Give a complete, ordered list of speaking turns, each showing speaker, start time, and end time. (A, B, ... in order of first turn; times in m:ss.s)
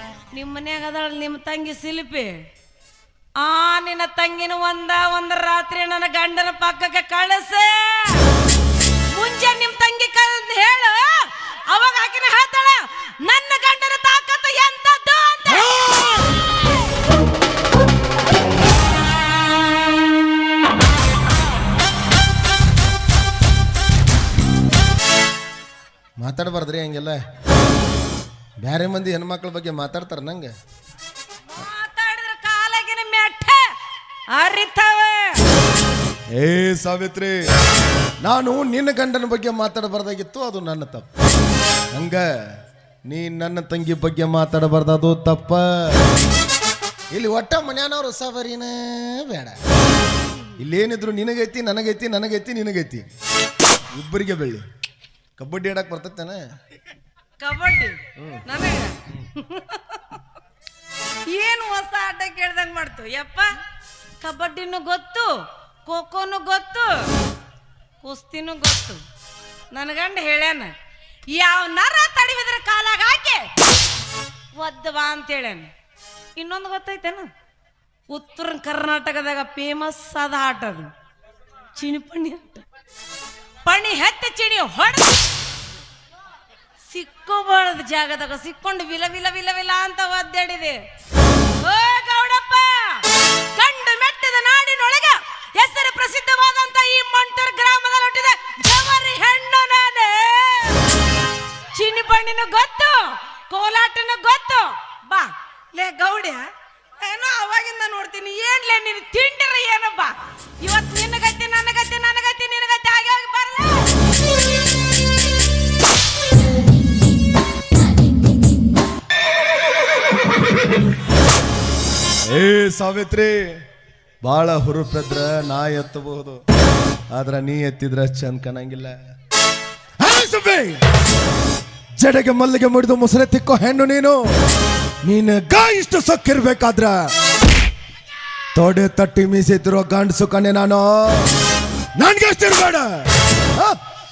0:00.3-0:02.4 A
0:03.4-0:08.2 A
0:09.1-0:16.1 A
0:26.2-0:27.2 B
0:28.6-0:30.5 B
0:31.6-0:33.7 A
0:34.3-0:35.4 A
0:36.3-0:37.3 B
0:38.2-0:41.1 B
0:41.9-0:42.2 B
0:43.1-0:46.0 B
0:47.1-0:49.6 B
0:50.6-0:53.0 B
0:53.9-0:54.6 B
0:55.4-0:56.4 B
0:57.4-1:00.2 A
1:01.3-1:03.5 A
1:04.2-1:05.3 A
1:05.8-1:06.9 A
1:08.0-1:09.0 A
1:09.7-1:10.7 A
1:11.3-1:13.5 A
1:14.6-1:15.7 A
1:16.4-1:17.3 A
1:18.1-1:20.9 A
1:21.7-1:22.6 A
1:23.6-1:25.2 A
1:26.9-1:30.8 A
1:31.6-1:40.8 A
1:41.7-1:46.4 A
1:47.0-1:53.9 A
2:02.3-2:03.6 B
2:04.2-2:06.4 B
2:07.1-2:08.9 B
2:10.0-2:10.8 B
2:12.0-2:14.2 B
2:15.0-2:17.1 B
2:18.5-2:21.3 B
2:22.0-2:23.8 B